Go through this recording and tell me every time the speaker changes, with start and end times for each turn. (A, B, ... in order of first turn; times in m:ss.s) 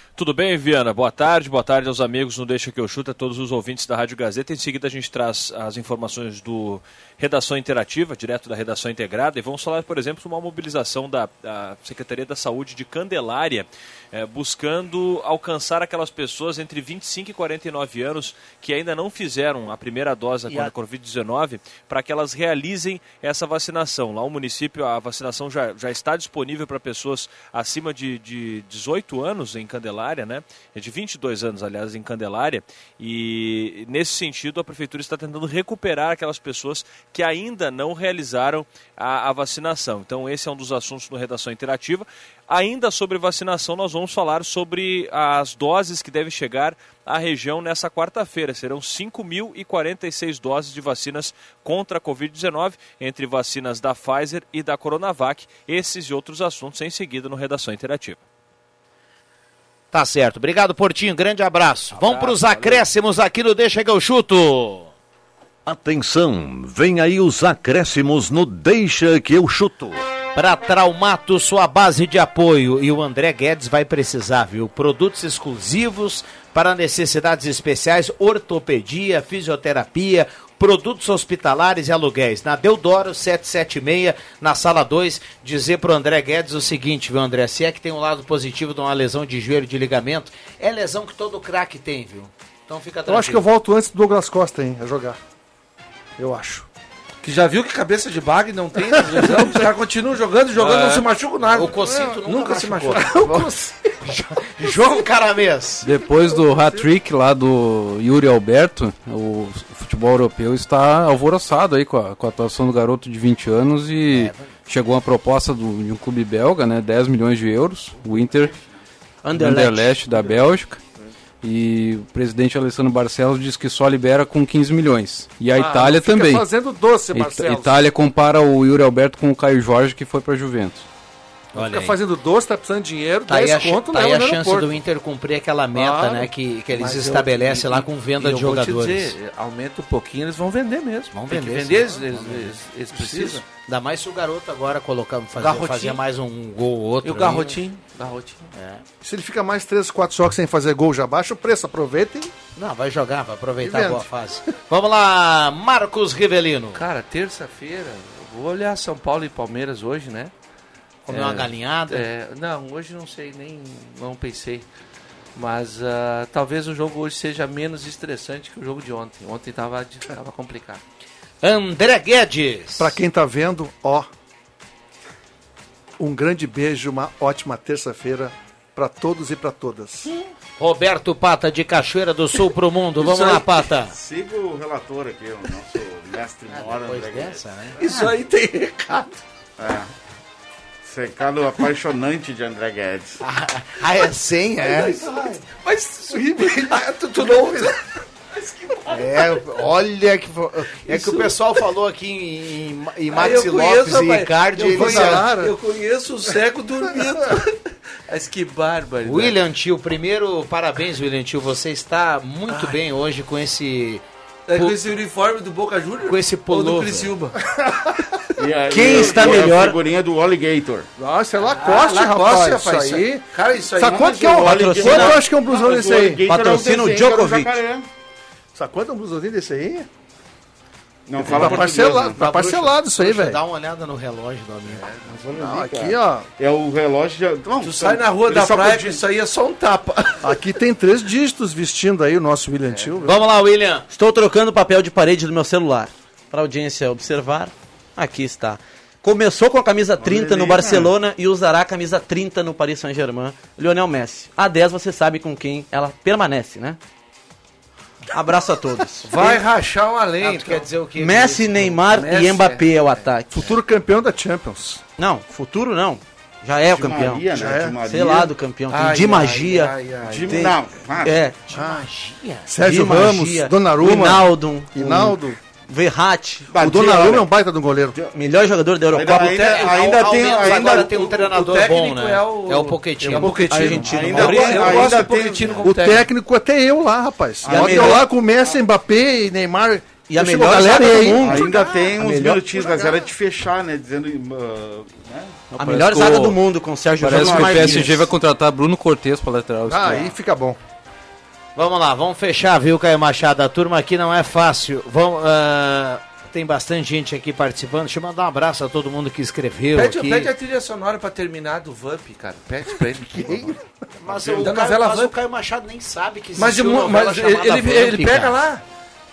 0:00.2-0:58.2 A
0:59.9-1:04.9 B
1:01.9-1:02.8 A
1:05.7-1:10.0 C
1:10.4-1:33.4 B
1:33.1-1:35.2 D
1:36.2-1:36.7 D
1:37.2-1:43.4 E
1:38.8-1:39.7 D
1:40.6-1:41.1 F
1:41.5-1:43.5 B
1:41.8-1:42.2 D
1:42.9-1:44.0 D
1:44.0-1:45.9 B
1:45.8-1:58.5 F
1:46.0-1:46.9 D
1:54.1-1:54.5 B
1:58.1-1:58.6 G
1:59.2-2:00.2 H
1:59.3-2:00.8 F
2:01.4-2:06.5 F
2:05.5-2:07.8 D
2:07.1-2:10.9 F
2:11.5-2:12.0 B
2:11.6-2:14.7 D
2:13.3-2:19.1 B
2:15.7-2:16.3 D
2:16.7-2:23.4 E
2:21.1-2:22.4 B
2:21.9-2:23.4 D
2:23.6-2:27.6 B
2:25.4-2:26.0 E
2:27.0-2:28.4 E
2:28.5-2:28.8 B
2:29.0-2:32.3 D
2:32.6-2:36.8 B
2:33.6-2:34.1 D
2:36.7-2:40.3 E
2:41.1-2:42.1 B
2:41.1-2:44.7 E
2:45.4-2:50.8 E
2:51.4-2:53.0 B
2:52.8-2:54.1 D
2:56.0-3:00.1 D
3:00.6-3:03.9 B
3:03.0-3:03.7 E
3:03.9-3:07.4 G
3:06.6-3:08.1 B
3:07.8-3:09.2 E
3:09.6-3:09.9 G
3:10.8-3:13.2 G
3:13.2-3:15.3 B
3:14.6-3:19.4 E
3:16.1-3:17.8 D
3:18.9-3:25.4 B
3:20.9-3:21.3 E
3:23.1-3:29.4 E
3:24.7-3:25.6 D
3:26.3-3:27.4 D
3:29.0-3:34.8 B
3:34.5-3:37.4 E
3:36.0-3:37.1 B
3:37.4-3:38.2 D
3:38.4-3:40.9 G
3:38.7-3:39.8 H
3:41.0-3:46.3 D
3:41.4-3:44.3 E
3:43.9-3:47.9 G
3:44.4-3:45.2 H
3:46.2-3:47.6 H
3:48.6-3:49.9 D
3:51.1-3:52.2 G
3:51.2-3:53.4 D
3:51.2-3:54.9 B
3:54.7-3:55.4 E
3:55.1-3:59.0 G
3:55.4-3:56.3 D
3:57.6-4:00.4 E
4:00.2-4:03.1 D
4:02.6-4:03.2 E
4:03.0-4:03.9 B
4:03.9-4:16.8 H
4:10.0-4:10.9 G
4:18.1-4:19.4 H
4:19.0-4:20.7 E
4:20.2-4:21.8 B
4:21.0-4:23.6 H
4:21.8-4:22.9 E
4:23.3-4:24.8 D
4:25.0-4:29.8 H
4:26.7-4:28.3 G
4:27.3-4:27.8 D
4:28.7-4:30.4 E
4:30.0-4:31.2 G
4:30.3-4:31.4 H
4:31.5-4:32.5 B
4:31.5-4:31.9 D
4:32.5-4:35.4 D
4:32.6-4:36.5 H
4:36.5-4:37.3 G
4:36.6-4:38.0 D
4:38.1-4:39.4 H
4:38.9-4:41.1 G
4:39.0-4:46.1 E
4:39.4-4:43.4 B
4:43.2-4:45.0 H
4:43.6-4:43.9 D
4:43.6-4:45.7 G
4:44.4-4:44.7 D
4:45.6-4:51.9 D
4:47.4-4:48.6 G
4:47.5-4:48.1 H
4:50.1-4:52.4 H
4:51.1-4:55.3 G
4:52.5-4:53.0 D
4:55.5-4:58.1 H
4:55.5-4:56.4 F
4:57.0-5:00.1 F
4:57.0-4:58.0 G
4:59.7-5:00.6 D
5:01.6-5:10.3 B
5:09.8-5:13.6 E
5:12.7-5:13.6 D
5:14.0-5:18.4 B
5:14.2-5:15.1 E
5:16.4-5:18.6 E